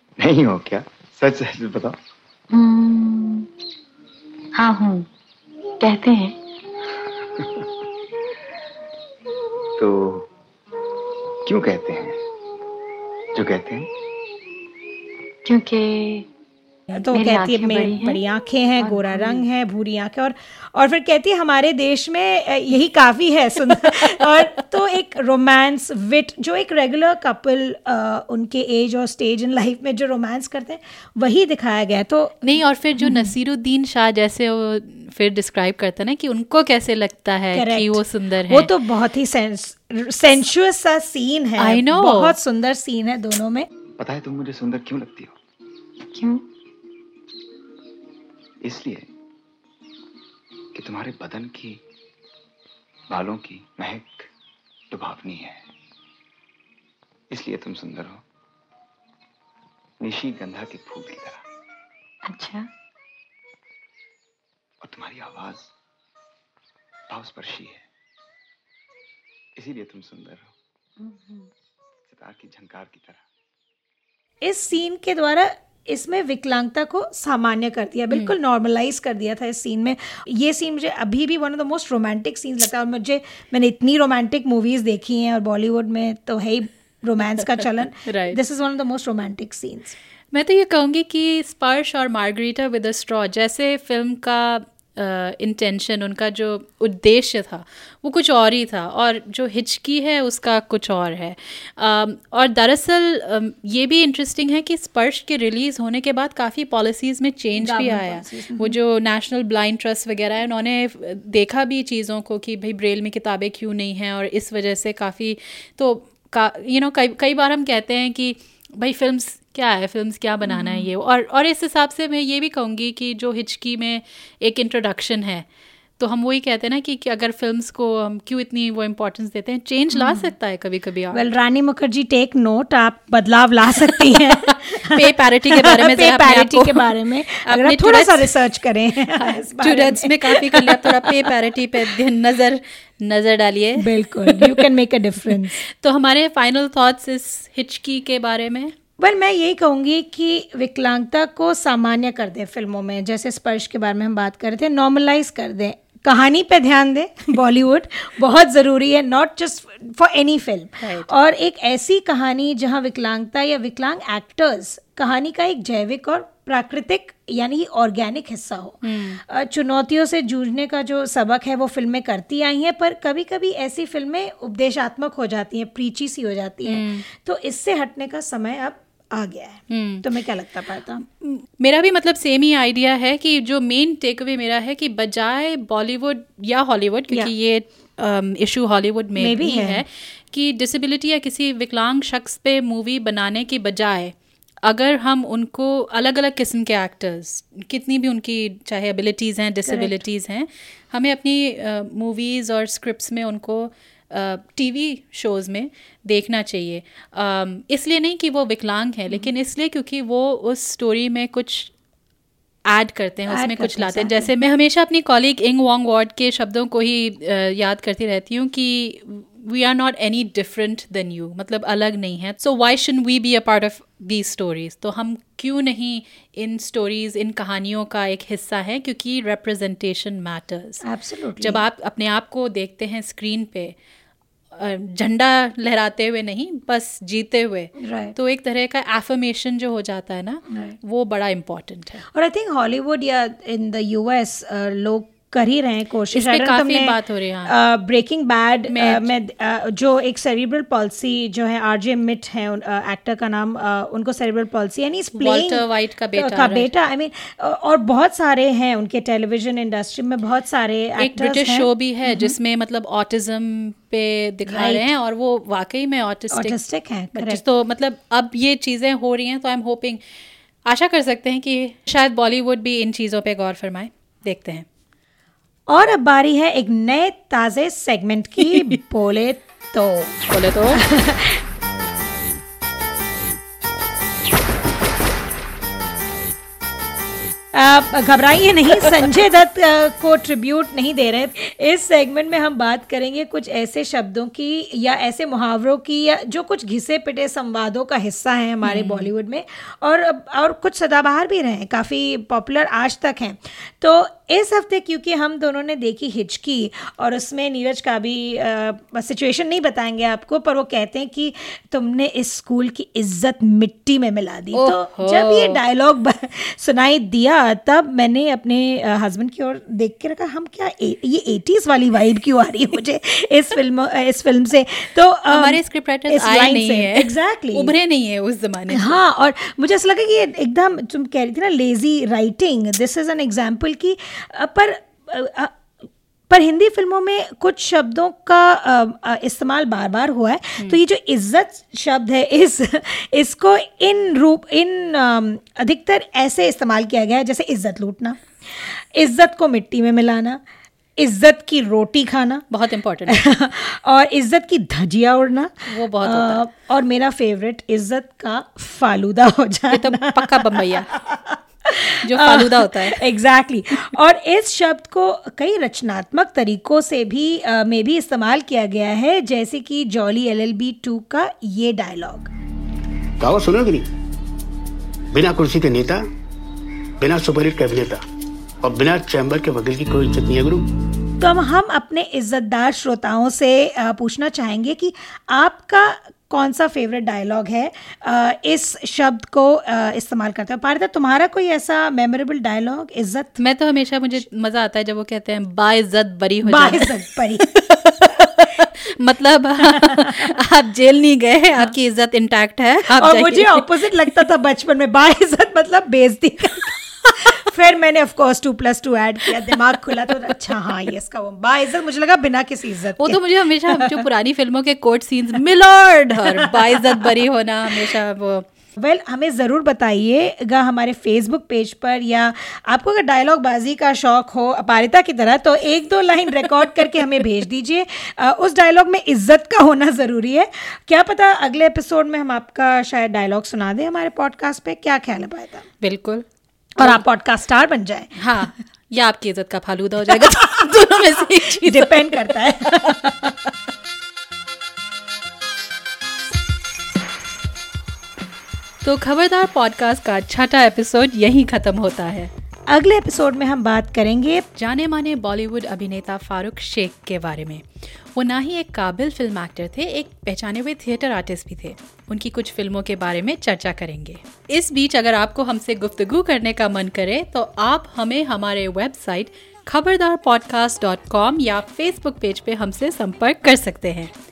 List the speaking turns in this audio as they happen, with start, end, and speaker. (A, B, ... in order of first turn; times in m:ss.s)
0:00.2-0:02.0 A
0:02.5-0:03.5 B
0:04.6-0:05.1 B
0:05.8-0:06.4 B
0:09.8-0:10.3 A
0:11.4-0:12.2 A
0:13.3-0:13.9 A
0:15.4-0:16.3 B
0:16.9-0:33.3 C
0:17.0-0:18.2 B
0:18.8-0:19.4 B
0:32.4-0:38.7 D
0:37.5-0:43.7 C
0:41.6-0:42.4 D
0:44.0-0:45.4 A
0:46.1-0:46.4 B
0:48.6-0:49.1 A
0:50.7-0:51.8 A
0:53.1-0:54.3 A
0:54.9-0:55.6 A
0:57.3-0:58.2 A
1:00.0-1:01.4 A
1:02.3-1:02.7 B
1:04.8-1:05.7 A
1:07.1-1:07.8 A
1:09.6-1:10.5 A
1:11.0-1:11.5 B
1:12.1-1:13.2 A
1:14.4-1:30.0 C
1:27.6-1:28.4 D
1:30.3-2:05.5 D
1:47.6-1:48.8 C
2:00.4-2:00.9 C
2:06.0-2:11.2 D
2:09.9-2:10.3 C
2:11.1-2:21.3 C
2:14.0-2:18.4 D
2:19.1-2:24.7 D
2:23.8-2:25.6 C
2:25.2-2:28.7 D
2:29.0-3:01.0 C
2:40.8-2:41.1 D
2:48.8-2:49.2 D
2:56.6-2:57.0 D
2:59.7-3:00.1 D
3:01.2-3:31.7 D
3:09.2-3:09.8 C
3:19.6-3:20.0 C
3:32.7-3:50.8 D
3:33.3-3:34.3 C
3:50.8-3:51.6 C
3:51.4-3:53.8 D
3:54.5-4:02.0 D
3:57.8-3:58.2 C
4:00.5-4:00.8 C
4:02.1-4:22.4 C
4:06.1-4:07.6 D
4:08.7-4:09.1 D
4:15.2-4:16.7 D
4:21.0-4:26.6 D
4:24.5-4:24.9 C
4:26.3-4:27.4 C
4:27.1-4:30.0 D
4:30.7-4:34.7 D
4:35.7-4:41.4 C
4:38.5-4:38.8 D
4:40.3-4:40.8 D
4:47.5-5:27.8 C
4:58.6-4:59.1 D
5:14.5-5:15.6 D
5:25.3-5:29.0 D
5:28.7-5:35.6 C
5:36.3-5:50.4 C
5:51.0-5:52.5 C
5:52.5-5:53.2 D
5:53.1-6:12.3 C
5:55.7-5:56.4 D
5:59.7-6:00.9 D
6:02.0-6:03.0 D
6:13.2-6:13.9 E
6:15.1-6:16.0 E
6:17.0-6:18.0 E
6:18.6-6:20.7 E
6:21.2-6:33.4 C
6:33.4-6:36.9 D
6:36.4-6:37.5 C
6:37.5-6:43.8 D
6:39.8-6:40.2 C
6:42.9-6:54.0 C
6:50.1-6:50.6 D
6:53.0-6:58.5 D
6:56.4-6:57.2 C
6:58.8-7:15.7 C
7:15.8-7:16.2 D
7:16.8-7:18.4 C
7:18.2-7:23.0 D
7:20.1-7:23.3 C
7:28.8-7:32.3 D
7:32.7-7:34.5 C
7:34.6-7:54.1 D